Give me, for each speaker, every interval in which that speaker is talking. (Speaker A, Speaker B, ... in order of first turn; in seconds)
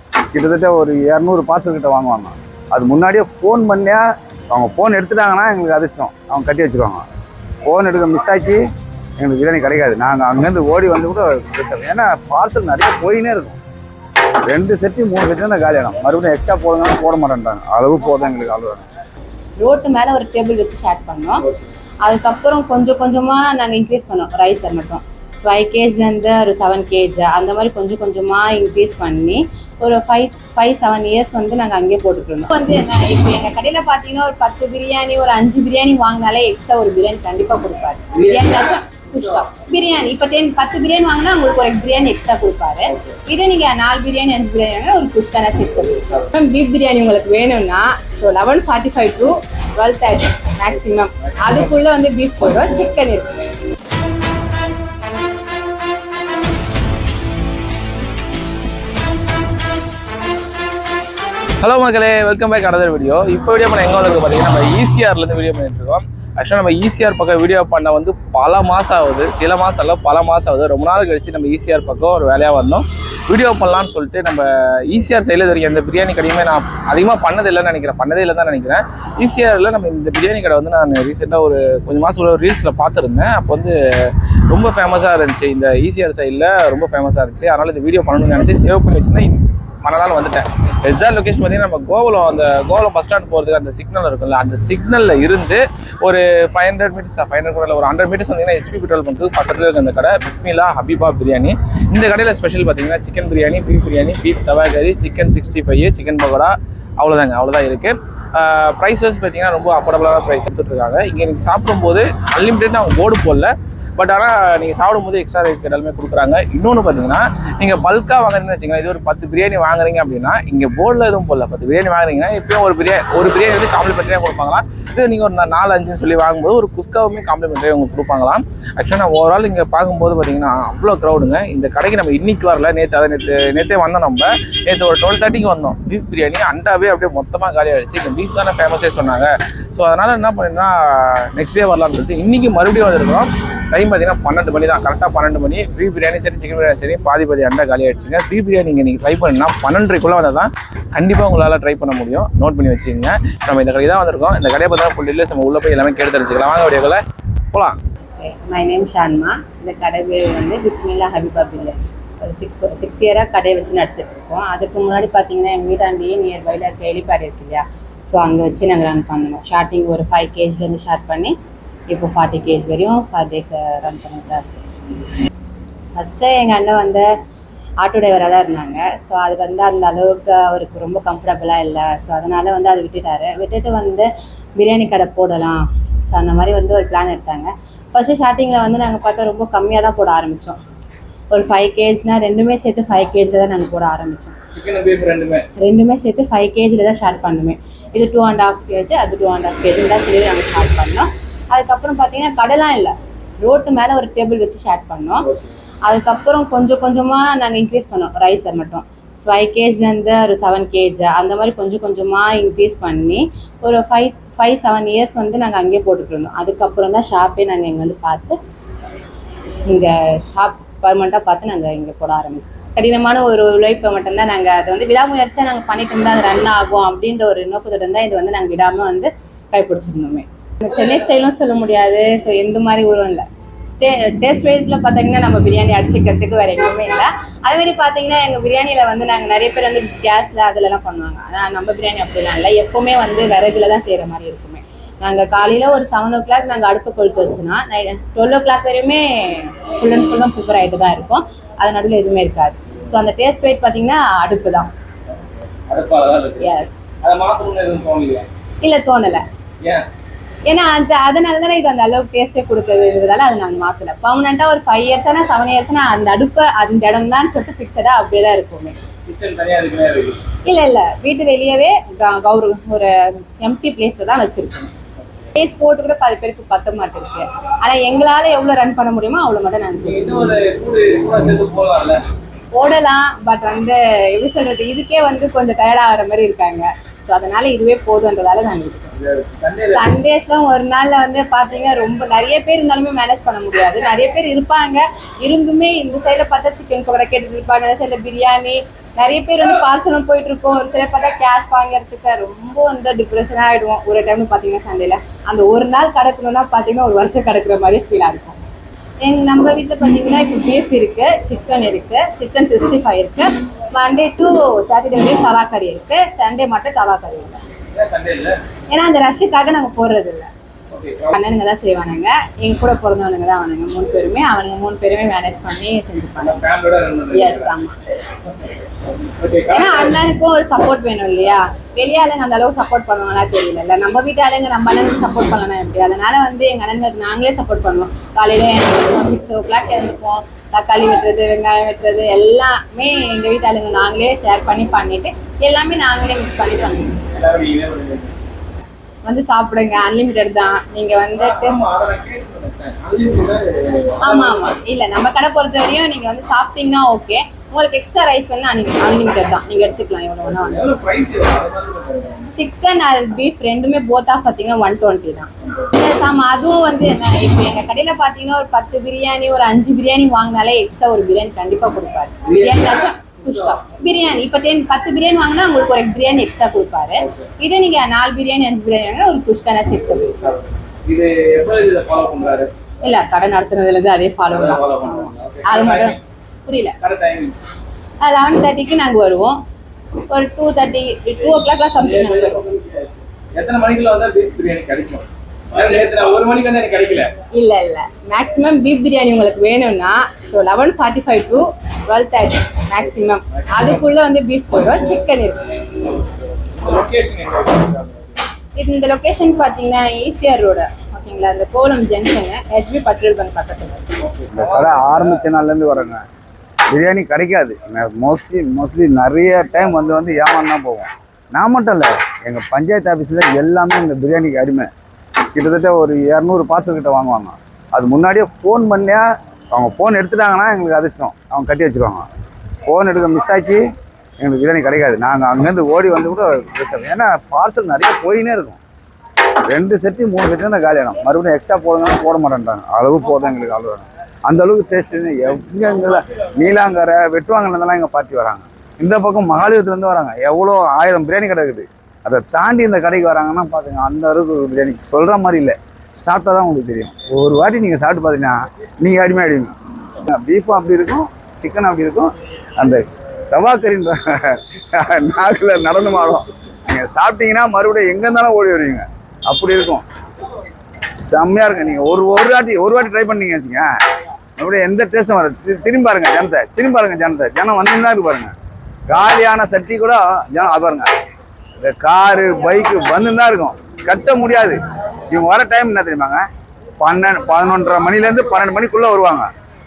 Speaker A: 0.3-7.0, 7.6-8.6, 9.2-13.6, 14.4-18.9, 414.3-416.0, 416.7-424.7, 425.3-432.1, 432.6-433.6, 434.2-438.6, 439.4-469.8, 471.0-473.7, 474.4-478.3, 478.9-480.9, 481.6-486.2, 486.8-489.3
Speaker B: 19.6-21.4, 22.1-53.3, 158.2-171.3, 171.9-174.6, 175.9-177.1, 177.8-190.6, 191.3-194.3, 195.6-205.3, 205.8-218.4, 219.7-254.7, 256.4-256.7, 258.6-259.2, 260.4-268.8, 270.4-274.7, 275.3-280.1, 282.5-288.9, 289.7-308.4, 309.0-317.4, 318.7-320.3, 321.1-326.4, 327.1-327.8, 329.5-347.0, 349.0-351.6, 354.0-360.7, 362.3-380.1, 382.8-386.8, 388.0-389.4, 390.1-392.4, 397.3-405.4, 408.6-413.8
Speaker C: 38.1-39.4, 42.9-43.2, 61.6-157.0, 157.5-157.8, 194.5-195.5, 255.7-258.2, 269.1-270.2, 279.8-282.0, 288.9-289.9, 317.7-318.4, 320.7-321.1, 326.2-327.5, 329.0-330.0, 347.0-348.1, 351.2-354.5, 360.3-362.3, 372.2-373.6, 377.0-377.3, 380.1-382.5, 384.3-386.0, 386.8-387.4, 391.8-397.1, 403.3-403.8, 406.5-408.2, 414.0-415.2